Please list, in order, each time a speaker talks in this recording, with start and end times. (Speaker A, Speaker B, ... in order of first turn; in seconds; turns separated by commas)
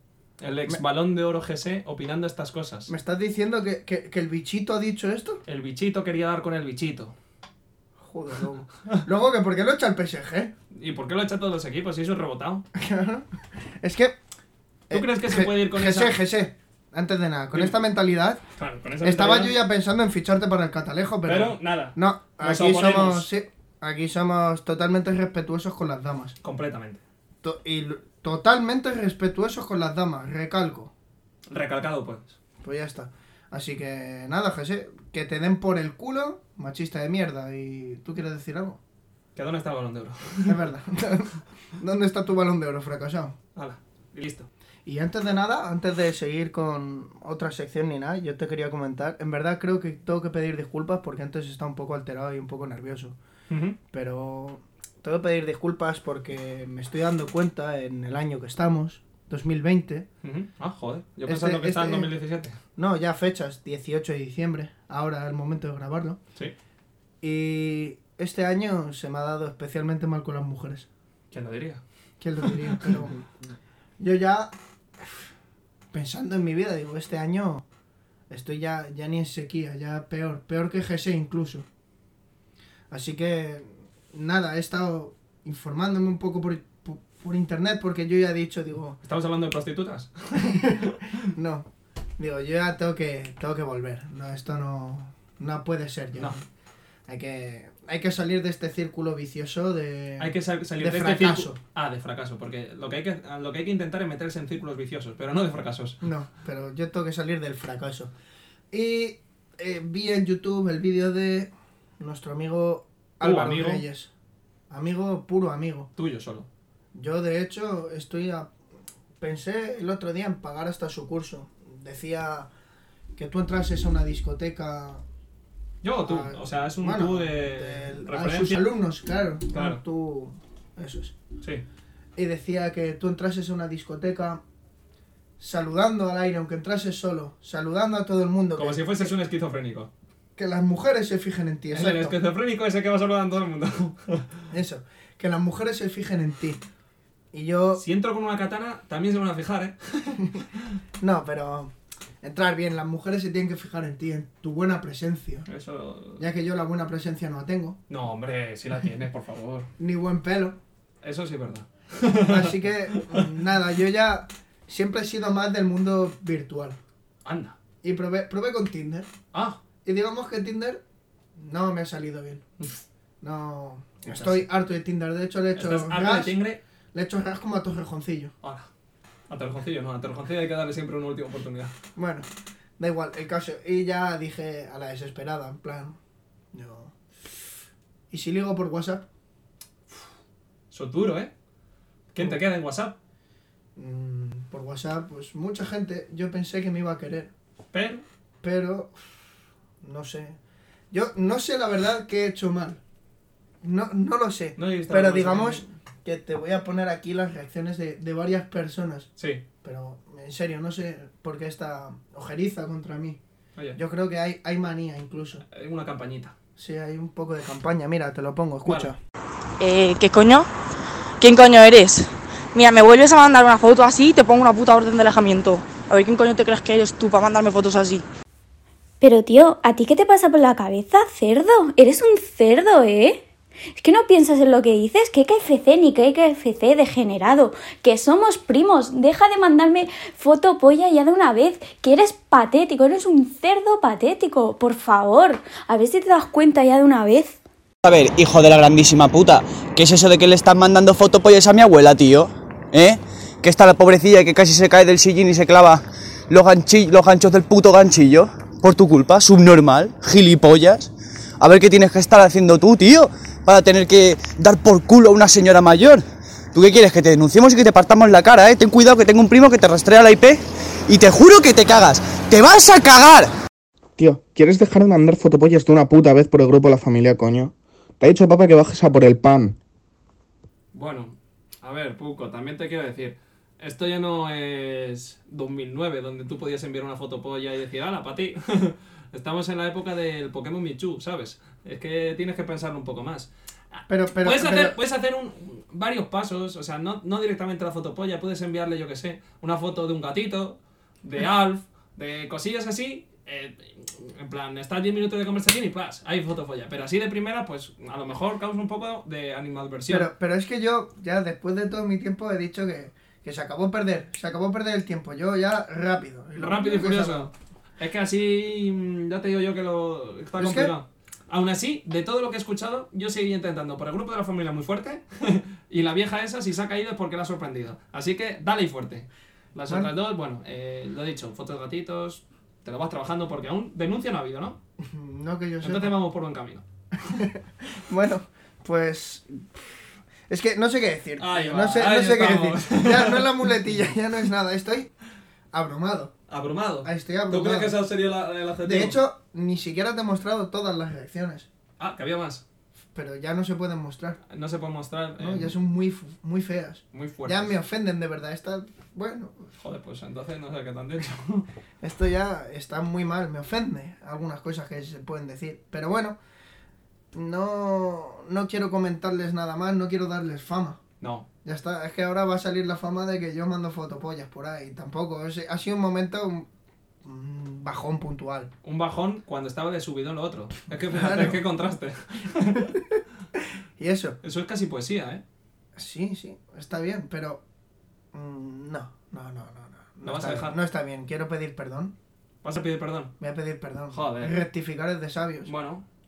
Speaker A: 0.4-2.9, Speaker B: 2.9-5.4, Speaker A: 5.5-7.1, Speaker B: 8.0-10.5, Speaker A: 10.7-12.6, Speaker B: 12.8-13.3, Speaker B: 13.8-14.2, Speaker B: 14.9-18.4, Speaker A: 14.9-16.2, Speaker A: 18.6-19.6, Speaker B: 19.0-26.4, Speaker A: 21.3-23.3, Speaker A: 26.4-27.0, Speaker B: 27.4-30.9, Speaker A: 31.5-32.4, Speaker B: 32.6-38.8, Speaker A: 39.4-40.6, Speaker B: 40.5-43.4, Speaker A: 43.6-44.5, Speaker B: 44.9-53.2, Speaker A: 53.5-53.8, Speaker B: 53.9-60.1, Speaker A: 60.2-62.6, Speaker B: 61.3-62.1, Speaker B: 62.8-66.2, Speaker B: 67.2-70.9, Speaker A: 71.3-71.8, Speaker B: 72.2-73.2, Speaker B: 74.0-75.3, Speaker B: 75.9-77.6, Speaker B: 78.3-81.7, Speaker B: 82.9-89.0, Speaker A: 89.0-91.2, Speaker B: 90.4-91.7, Speaker B: 92.2-96.4, Speaker B: 97.1-101.6, Speaker A: 100.2-106.0, Speaker B: 106.0-108.1, Speaker B: 108.7-114.1, Speaker A: 113.2-113.8, Speaker B: 114.7-115.9, Speaker A: 116.0-116.5, Speaker B: 116.9-118.5, Speaker B: 119.2-122.5, Speaker B: 123.2-125.0, Speaker A: 125.8-128.7, Speaker B: 126.0-131.2, Speaker A: 129.5-129.8, Speaker B: 132.2-134.4, Speaker B: 135.4-139.1, Speaker A: 138.6-139.9, Speaker B: 140.4-142.2, Speaker A: 141.7-144.3, Speaker B: 144.5-146.6, Speaker B: 147.3-147.8, Speaker A: 147.8-150.6, Speaker B: 151.0-155.5, Speaker A: 155.5-156.2, Speaker B: 156.2-157.8, Speaker A: 157.9-159.7, Speaker B: 159.8-160.6, Speaker A: 161.0-163.3, Speaker B: 162.1-166.8, Speaker A: 167.2-167.6, Speaker B: 167.8-169.1, Speaker A: 169.3-169.6, Speaker B: 169.8-170.8, Speaker B: 171.4-172.4, Speaker B: 173.2-176.4, Speaker A: 174.1-174.4, Speaker A: 175.6-176.6, Speaker B: 176.9-178.3, Speaker A: 179.3-181.7, Speaker B: 182.0-186.0, Speaker B: 186.5-186.9, Speaker B: 188.1-189.1, Speaker A: 190.7-191.3, Speaker A: 192.1-193.0, Speaker B: 193.8-197.3, Speaker A: 197.7-198.0, Speaker B: 198.4-199.0, Speaker B: 199.8-200.4, Speaker B: 200.9-202.8, Speaker B: 203.6-209.1, Speaker A: 204.6-205.7, Speaker A: 209.2-209.4, Speaker B: 209.6-213.2, Speaker B: 213.8-215.4, Speaker A: 215.5-216.3, Speaker B: 216.6-219.0, Speaker A: 218.7-218.9, Speaker C: 219.6-220.5, Speaker C: 221.2-228.0, Speaker D: 229.0-233.2, Speaker D: 233.8-247.4, Speaker E: 247.8-273.3, Speaker F: 274.0-279.6, Speaker A: 280.7-310.1, Speaker B: 293.9-294.7, Speaker B: 309.9-317.3, Speaker A: 316.4-334.6, Speaker B: 320.4-320.7, Speaker B: 334.8-335.9, Speaker A: 335.6-336.6, Speaker B: 337.0-339.7, Speaker B: 340.3-344.9, Speaker A: 341.2-343.5, Speaker B: 345.5-346.1, Speaker A: 346.3-349.0, Speaker B: 346.8-347.8, Speaker B: 348.6-351.5, Speaker A: 351.8-352.4, Speaker B: 352.9-354.2, Speaker A: 354.3-355.6, Speaker B: 355.2-359.5, Speaker A: 356.9-357.6, Speaker A: 359.6-361.5, Speaker B: 361.8-366.2, Speaker B: 367.1-370.8, Speaker A: 371.0-371.3, Speaker B: 371.4-376.5, Speaker B: 377.0-378.5, Speaker A: 378.6-382.7, Speaker B: 380.9-381.4, Speaker B: 382.6-383.0, Speaker B: 383.8-384.2, Speaker A: 384.2-385.2, Speaker B: 385.8-387.4, Speaker B: 388.1-391.9, Speaker A: 390.0-390.6, Speaker A: 392.4-393.1, Speaker B: 393.2-395.5, Speaker A: 393.9-394.4, Speaker A: 395.5-395.9